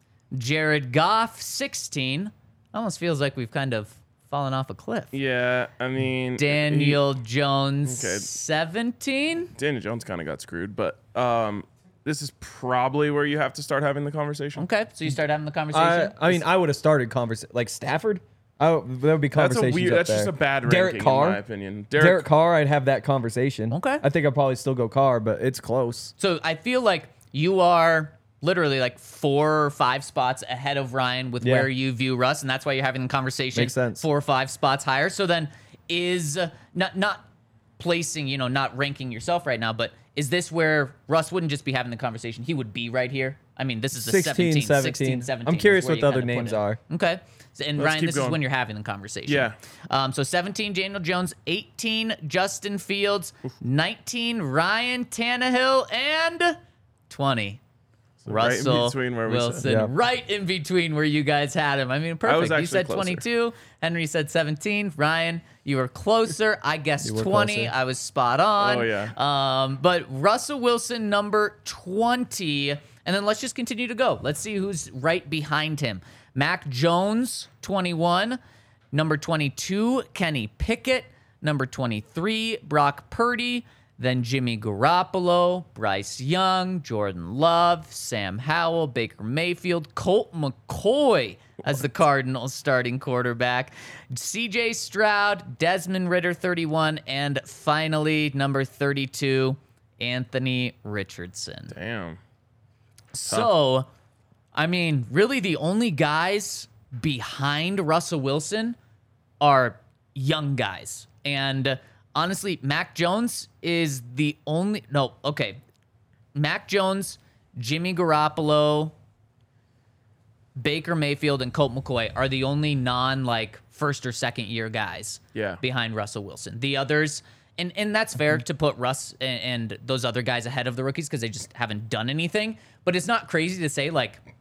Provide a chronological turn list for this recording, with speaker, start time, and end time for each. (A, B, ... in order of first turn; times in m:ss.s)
0:00.3-0:05.1 A
0:05.1-0:07.0 B
0:06.4-0:09.5 A
0:07.8-0:08.3 B
0:09.6-0:14.6 B
0:14.6-0:16.4 A
0:15.7-0:21.4 C
0:19.3-0:22.2 B
0:21.9-0:26.1 C
0:23.7-0:24.0 A
0:26.2-0:37.2 A
0:31.4-0:31.7 C
0:33.5-0:34.0 C
0:37.8-0:56.6 A
0:44.0-0:46.8 C
0:47.8-0:48.4 B
0:49.3-0:49.6 B
0:57.1-0:57.6 A
0:58.2-0:59.6 B
0:58.3-1:18.4 A
0:59.6-0:59.9 C
1:02.2-1:03.2 B
1:07.0-1:07.7 C
1:08.6-1:09.1 B
1:18.9-1:41.7 A
1:41.7-1:42.2 B
1:43.1-1:43.9 A
1:44.5-1:48.8 A
1:49.4-1:55.6 A
1:56.3-1:58.9 A
2:00.6-2:14.2 A
2:05.3-2:05.6 B